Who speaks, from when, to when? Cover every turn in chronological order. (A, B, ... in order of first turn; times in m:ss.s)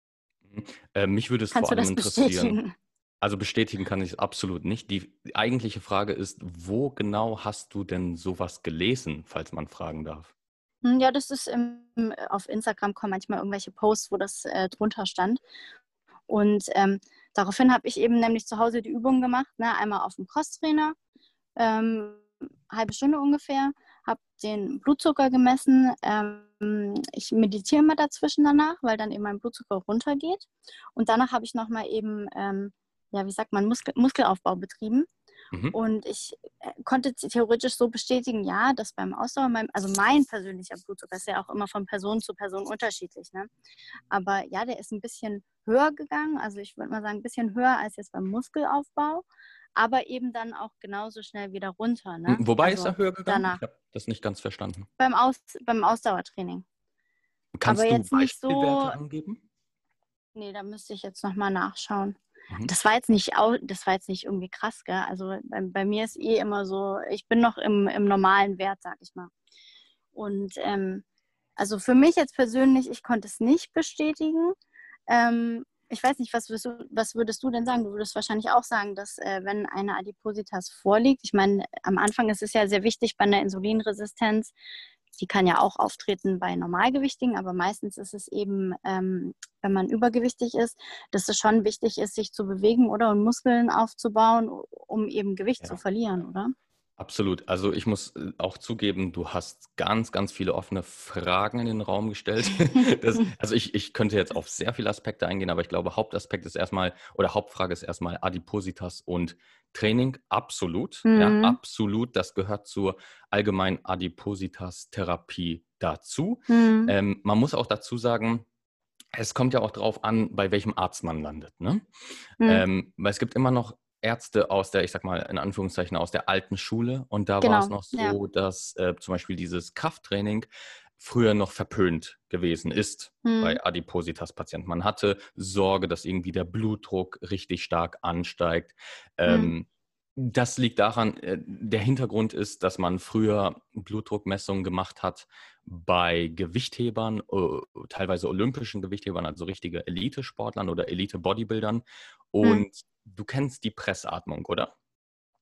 0:00.5-0:02.6 A
0:01.5-0:02.7 B
0:03.2-0:10.3 A
0:10.8-0:15.4 B
0:16.3-0:20.9 B
0:21.6-0:35.1 B
0:35.7-0:43.5 B
0:44.1-0:53.6 B
0:52.3-0:54.9 A
0:55.0-0:56.6 B
0:57.5-0:59.4 A
0:57.6-0:59.0 B
1:00.3-1:09.3 B
1:10.1-1:11.0 B
1:11.6-1:14.5 B
1:15.1-1:24.5 B
1:25.2-1:36.5 B
1:37.0-1:58.4 A
1:51.0-1:51.6 B
1:56.5-1:56.9 B
1:59.1-2:01.8 A
2:02.4-2:10.5 A
2:07.4-2:08.2 B
2:11.0-2:34.7 A
2:13.2-2:13.6 B
2:19.3-2:19.5 B